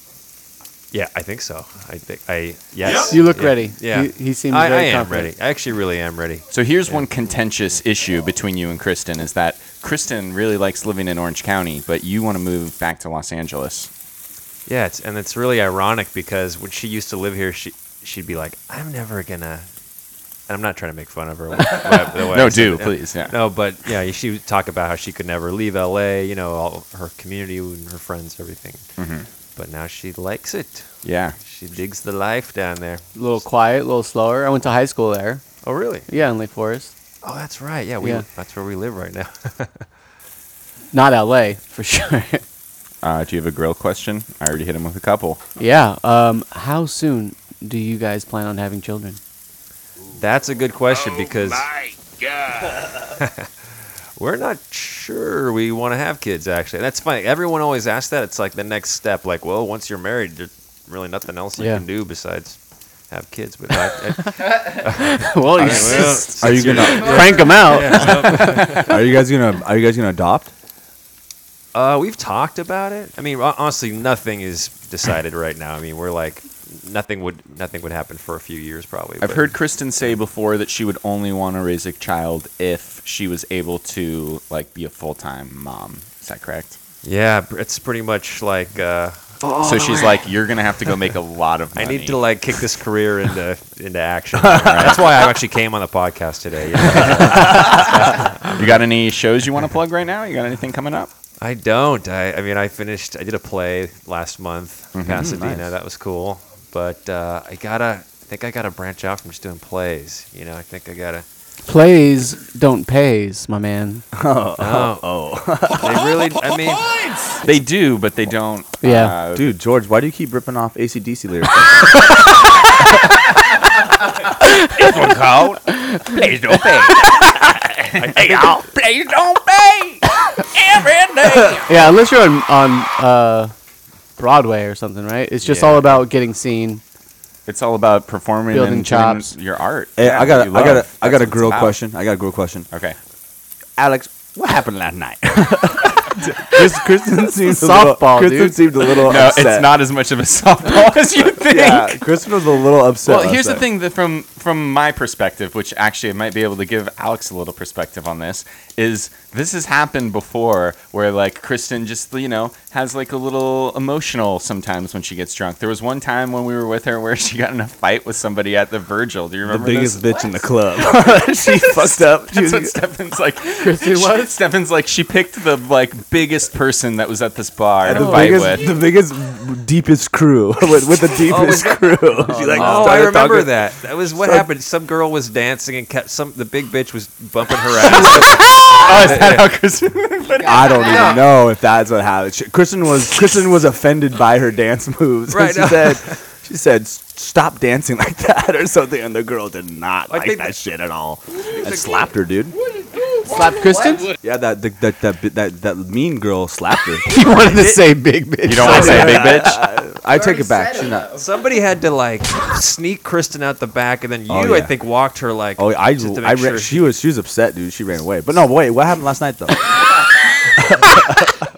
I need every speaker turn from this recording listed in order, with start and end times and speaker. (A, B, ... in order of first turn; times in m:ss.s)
0:00.9-0:07.1 A
0:03.1-0:05.3 B
0:06.5-0:13.9 C
0:14.6-0:19.7 A
0:20.5-0:28.9 A
0:22.3-0:23.4 C
0:29.0-0:29.3 C
0:29.6-0:33.4 A
0:31.0-0:31.4 C
0:33.1-0:35.4 B
0:35.6-0:36.0 A
0:36.1-0:36.9 B
0:37.2-0:39.9 A
0:40.9-0:42.4 B
0:43.0-0:45.4 C
0:45.6-0:49.2 B
0:50.2-0:51.7 A
0:53.2-0:53.5 A
0:54.2-1:08.9 A
1:01.6-1:01.8 B
1:05.2-1:08.6 B
1:05.6-1:07.6 D
1:08.7-1:10.5 D
1:11.7-1:20.2 A
1:19.2-1:26.8 C
1:27.0-1:29.3 A
1:29.5-1:30.2 E
1:29.6-1:32.2 C
1:31.7-1:38.8 A
1:34.4-1:35.0 D
1:34.6-1:35.1 C
1:38.6-1:41.1 C
1:41.4-1:51.2 A
1:44.9-1:45.3 C
1:45.1-1:45.7 D
1:51.6-1:54.0 B
1:54.1-1:56.1 D
1:54.6-1:55.1 A
1:55.8-1:56.8 A
1:57.4-1:59.5 C
1:58.8-1:59.1 B
1:59.3-2:02.0 D
2:04.7-2:09.9 E
2:08.0-2:08.6 A
2:09.4-2:10.0 C
2:10.5-2:11.6 E
2:11.6-2:13.5 B
2:14.2-2:16.8 B
2:15.4-2:16.0 A
2:17.4-2:21.8 C
2:18.5-2:19.3 B
2:20.0-2:22.7 D
2:22.7-2:23.0 C
2:23.8-2:29.7 D
2:26.8-2:28.6 B
2:28.9-2:32.1 C
2:31.3-2:33.6 D
2:33.0-2:58.7 C
2:49.4-2:52.8 D
2:53.6-2:54.4 B
2:57.8-3:04.5 D
2:57.9-2:58.4 B
3:01.2-3:09.5 A
3:02.3-3:03.0 B
3:07.8-3:11.0 C
3:10.4-3:22.6 D
3:15.3-3:16.2 A
3:20.1-3:20.6 A
3:21.6-3:22.0 A
3:23.3-3:24.1 B
3:24.2-3:27.1 D
3:27.1-3:29.5 B
3:28.4-3:29.6 C
3:28.6-3:31.2 D
3:31.1-3:36.9 A
3:34.3-3:34.7 D
3:35.6-3:39.6 D
3:40.8-3:41.3 D